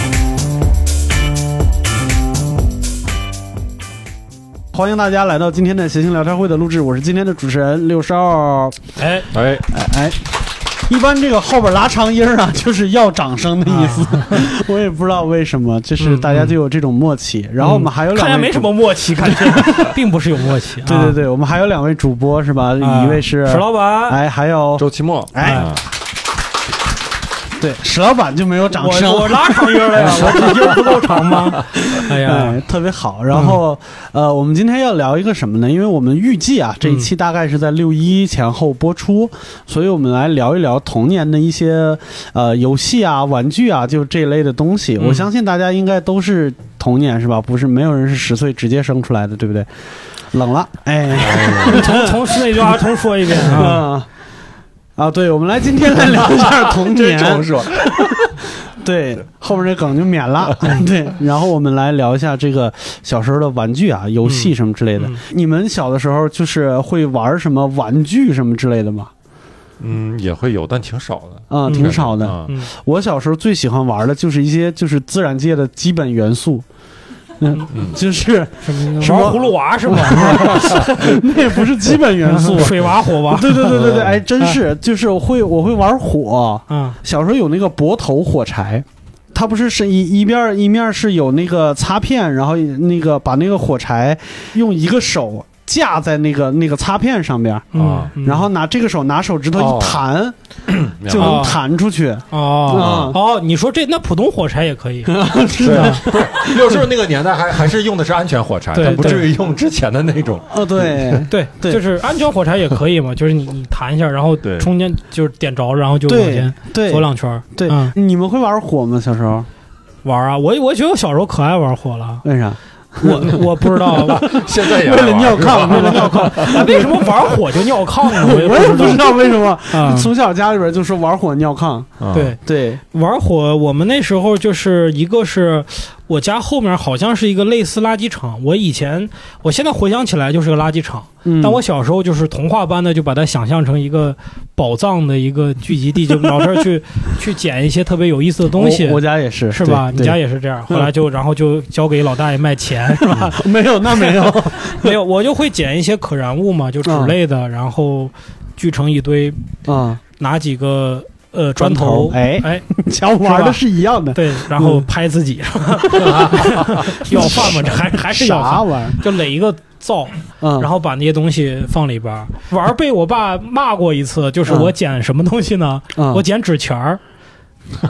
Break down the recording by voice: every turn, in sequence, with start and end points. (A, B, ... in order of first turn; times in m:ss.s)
0:04.7-0:08.8 A
0:09.0-0:09.3 B
0:09.3-0:09.6 C
0:09.7-0:10.2 A
0:10.9-0:19.8 A
0:13.7-0:14.4 B
0:16.0-0:16.5 B
0:17.6-0:21.2 B
0:20.8-0:25.6 A
0:22.8-0:24.2 B
0:24.8-0:25.8 C
0:25.4-0:25.7 B
0:27.6-0:30.8 A
0:28.7-0:32.6 B
0:31.9-0:49.7 A
0:33.3-0:33.6 B
0:45.0-0:45.3 B
0:50.3-0:52.4 A
0:51.2-0:51.8 C
0:51.7-0:53.9 B
0:53.4-0:54.1 A
0:55.0-0:57.5 A
0:56.7-0:58.3 C
0:58.6-1:09.1 A
1:04.2-1:05.2 B
1:09.8-1:12.5 C
1:11.5-1:16.6 A
1:17.4-1:37.7 A
1:18.6-1:20.8 B
1:22.3-1:24.6 B
1:26.7-1:27.0 B
1:37.7-1:38.5 B
1:37.8-1:38.1 C
1:38.2-1:40.4 A
1:39.5-1:40.0 C
1:40.7-1:41.4 C
1:41.0-1:43.2 A
1:41.2-1:41.6 B
1:42.3-1:45.1 B
1:42.8-1:43.2 C
1:45.1-1:46.5 A
1:45.6-1:51.2 C
1:45.7-1:46.0 B
1:48.7-1:49.3 B
1:50.5-1:51.8 A
1:51.3-1:57.9 B
1:54.4-1:54.7 C
1:56.1-1:59.5 A
2:00.0-2:02.2 B
2:02.2-2:07.0 A
2:03.0-2:04.3 B
2:04.2-2:06.8 C
2:05.6-2:09.2 B
2:08.2-2:12.8 A
2:09.7-2:10.1 B
2:12.0-2:12.4 C
2:12.1-2:12.4 B
2:12.9-2:33.4 B
2:21.2-2:21.6 A
2:28.5-2:30.2 A
2:33.2-2:34.9 A
2:34.0-2:39.4 B
2:36.8-2:37.2 A
2:39.7-2:40.0 A
2:40.1-2:42.6 B
2:41.6-2:44.8 A
2:43.2-2:43.6 B
2:44.1-2:57.0 B
2:46.0-2:49.0 A
2:50.4-2:50.7 A
2:54.5-2:54.7 A
2:55.9-2:56.2 A